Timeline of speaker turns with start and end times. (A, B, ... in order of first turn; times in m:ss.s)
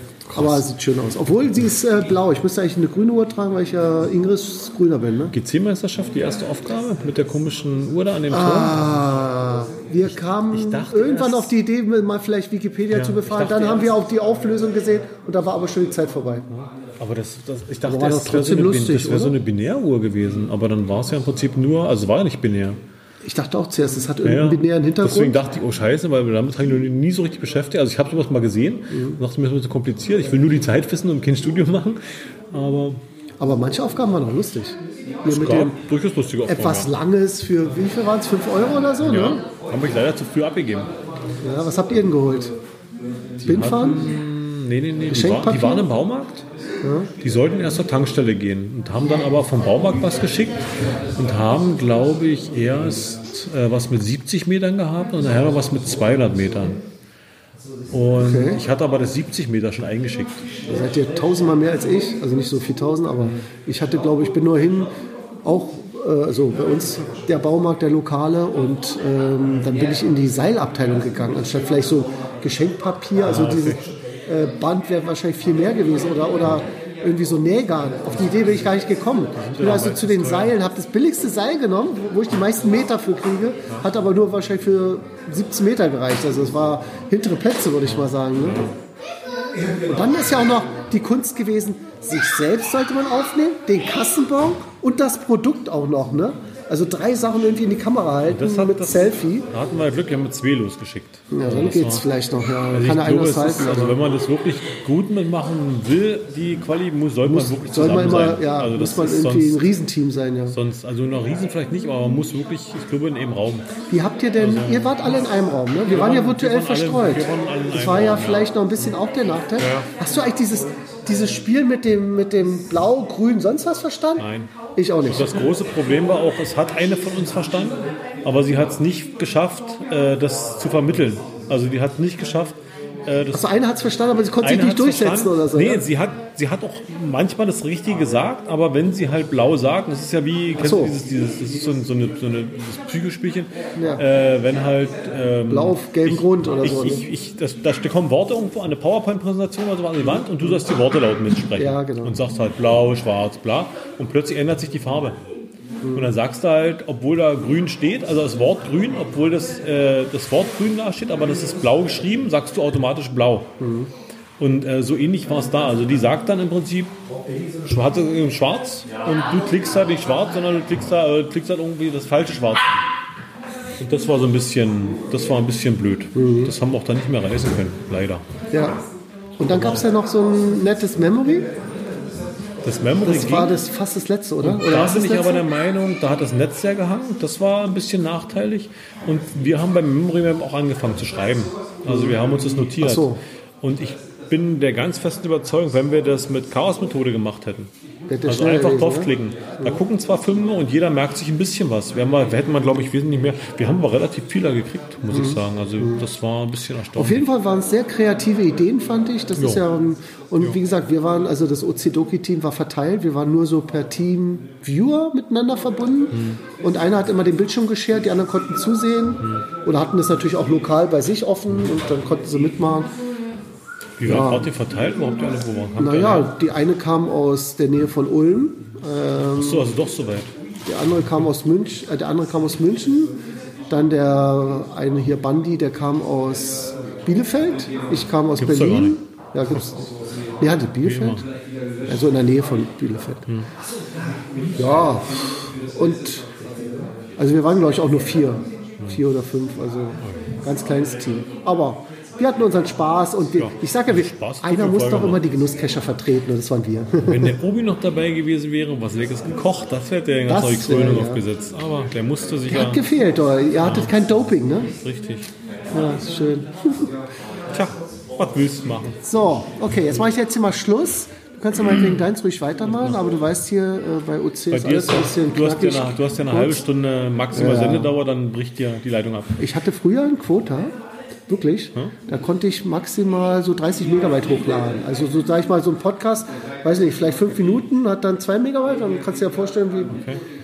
0:00.3-0:00.6 A
0:00.3-0:05.3 B
0:05.3-0:08.8 A
0:08.3-0:16.5 B
0:10.0-0:11.5 A
0:12.9-0:14.0 A
0:16.5-0:22.8 A
0:17.8-0:19.4 B
0:23.2-0:25.4 B
0:24.2-0:33.0 A
0:28.9-0:29.2 B
0:33.4-0:35.8 B
0:35.3-0:36.9 A
0:36.4-0:39.4 B
0:39.0-0:40.9 A
0:41.4-0:42.5 B
0:43.4-0:46.4 A
0:43.4-0:44.0 B
0:45.1-0:45.9 B
0:46.8-0:47.1 B
0:47.2-0:50.6 A
0:51.2-0:56.8 A
0:57.9-1:00.4 A
0:58.2-0:58.6 B
1:00.7-1:04.9 B
1:03.2-1:03.5 A
1:05.4-1:28.6 B
1:13.2-1:13.9 A
1:19.3-1:20.5 A
1:27.9-1:28.7 A
1:29.8-1:39.5 B
1:38.3-1:42.1 A
1:41.3-1:44.0 B
1:42.7-1:49.7 A
1:47.2-1:50.6 B
1:50.5-1:53.7 A
1:53.9-2:05.4 B
1:54.4-1:54.9 A
1:55.9-1:58.9 A
1:59.6-1:59.9 A
2:04.2-2:04.5 A
2:05.1-2:13.5 A
2:13.3-2:15.8 B
2:14.4-2:35.2 A
2:20.6-2:21.0 B
2:23.8-2:24.0 B
2:25.5-2:27.0 B
2:30.2-2:30.5 B
2:31.6-2:32.2 B
2:35.8-2:36.1 B
2:35.9-2:43.5 A
2:43.6-2:43.9 B
2:44.4-2:47.0 A
2:47.6-2:52.8 A
2:53.8-2:58.2 A
2:56.1-2:56.5 B
2:58.5-2:58.8 B
2:59.4-3:01.5 B
2:59.5-2:59.8 A
3:02.6-3:03.5 A
3:03.0-3:05.4 B
3:04.4-3:17.7 A
3:11.8-3:13.2 B
3:18.1-3:19.8 B
3:18.2-3:27.3 A
3:25.1-3:26.0 B
3:27.0-3:42.9 B
3:29.4-3:29.6 A
3:36.1-3:36.4 A
3:44.0-3:46.3 A
3:44.0-3:44.5 B
3:45.8-3:49.7 B
3:49.3-3:50.3 A
3:50.6-3:53.1 B
3:53.7-4:01.2 B
3:58.4-3:59.0 A
4:00.8-4:01.2 A
4:01.9-4:03.3 B
4:04.5-4:06.3 B
4:07.2-4:17.3 B
4:13.4-4:15.3 A
4:17.0-4:22.8 A
4:20.3-4:21.2 B
4:22.5-4:24.7 B
4:23.6-4:24.0 A
4:24.8-4:25.3 A
4:25.7-4:26.9 B
4:27.5-4:29.0 A
4:29.0-4:36.6 B
4:34.5-4:39.4 A
4:37.3-4:37.9 B
4:39.4-4:40.8 B
4:41.3-4:50.0 B
4:49.9-4:50.2 A